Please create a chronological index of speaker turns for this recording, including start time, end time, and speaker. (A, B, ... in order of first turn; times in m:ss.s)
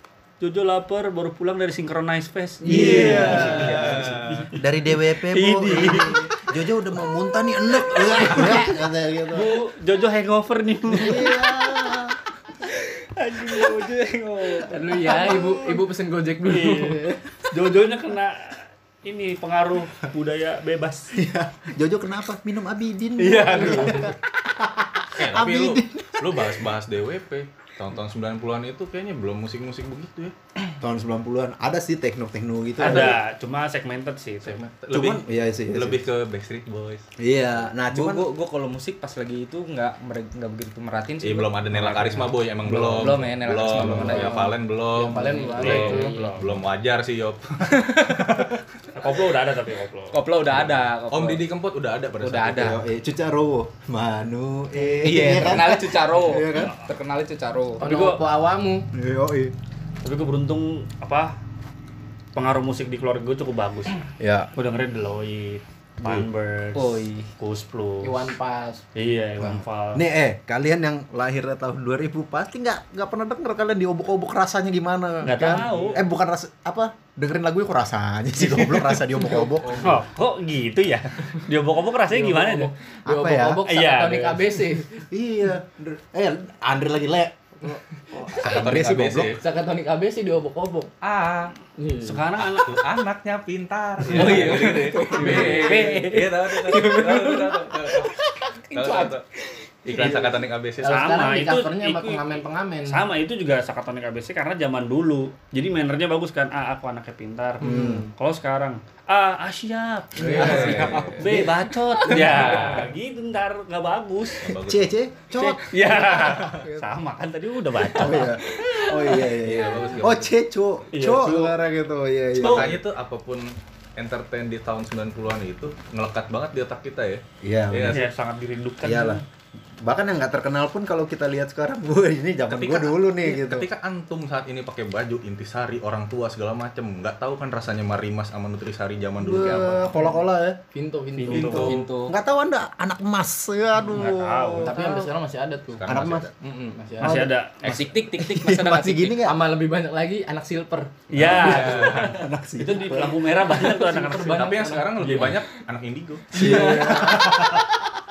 0:00.4-0:06.3 A
0:02.6-0:09.5 B
0:02.6-0:03.7 C
0:02.6-0:04.5 D
0:07.9-0:08.8 A
0:09.3-0:12.0 A
0:10.9-0:12.2 B
0:12.6-0:15.5 A
0:14.7-0:17.2 C
0:16.4-0:21.1 A
0:21.1-0:26.7 B
0:23.2-0:24.1 A
0:23.6-0:24.1 C
0:25.2-0:30.3 D
0:30.8-0:33.2 B
0:32.8-0:34.6 A
0:34.4-0:34.7 C
0:34.8-0:37.0 D
0:34.9-0:36.0 B
0:37.2-0:38.3 B
0:37.9-0:44.4 E
0:41.2-0:48.6 D
0:42.7-0:43.0 A
0:43.8-0:44.0 B
0:44.0-0:46.3 C
0:45.3-0:46.6 E
0:45.6-0:46.4 A
0:47.7-0:48.3 E
0:48.9-0:50.2 A
0:50.1-0:51.4 E
0:50.4-0:52.8 D
0:52.2-0:52.8 E
0:52.6-0:56.7 B
0:54.9-0:55.3 C
0:55.0-0:57.8 E
0:57.8-0:58.9 C
0:57.8-0:58.2 A
0:58.9-0:59.5 B
1:00.0-1:01.3 A
1:02.3-1:04.0 A
1:04.2-1:04.5 B
1:04.5-1:08.3 A
1:06.8-1:07.3 E
1:08.0-1:08.8 C
1:09.0-1:10.0 A
1:09.4-1:20.0 B
1:15.2-1:16.0 A
1:18.6-1:18.9 A
1:19.6-1:20.0 D
1:19.8-1:22.7 A
1:22.1-1:25.0 C
1:23.1-1:23.6 B
1:23.6-1:24.5 A
1:25.1-1:29.3 B
1:27.6-1:30.9 C
1:28.4-1:29.4 D
1:31.0-1:31.5 D
1:31.8-1:32.2 C
1:32.0-1:32.8 A
1:32.5-1:38.2 D
1:34.1-1:40.3 E
1:34.1-1:34.4 A
1:34.2-1:35.7 C
1:34.2-1:34.5 B
1:35.2-1:36.2 A
1:38.7-1:39.2 D
1:39.8-1:41.0 D
1:40.8-1:43.0 C
1:40.8-1:54.5 A
1:47.6-1:48.1 B
1:47.6-1:48.1 C
1:50.2-1:52.8 B
1:50.2-1:51.4 C
1:50.3-1:51.2 D
1:54.4-1:54.9 D
1:54.6-1:56.6 B
1:55.3-1:58.4 A
1:57.9-2:02.8 B
1:59.2-2:00.3 D
2:00.9-2:01.6 A
2:02.4-2:08.1 D
2:02.4-2:02.6 A
2:07.4-2:08.0 B
2:07.9-2:09.2 A
2:08.8-2:09.2 B
2:09.8-2:13.7 B
2:12.5-2:20.0 D
2:19.2-2:20.6 B
2:20.7-2:21.9 C
2:21.2-2:21.7 A
2:21.3-2:24.8 B
2:21.3-2:21.9 D
2:21.4-2:22.2 E
2:23.9-2:25.1 A
2:24.6-2:27.3 C
2:25.7-2:26.3 D
2:25.9-2:26.3 B
2:27.0-2:27.9 A
2:27.0-2:27.3 B
2:27.6-2:29.2 E
2:28.2-2:29.4 B
2:29.2-2:31.8 C
2:31.1-2:35.4 A
2:31.2-2:33.3 B
2:31.2-2:32.1 D
2:33.3-2:35.4 C
2:34.3-2:37.6 D
2:36.3-2:37.6 C
2:36.4-2:37.6 B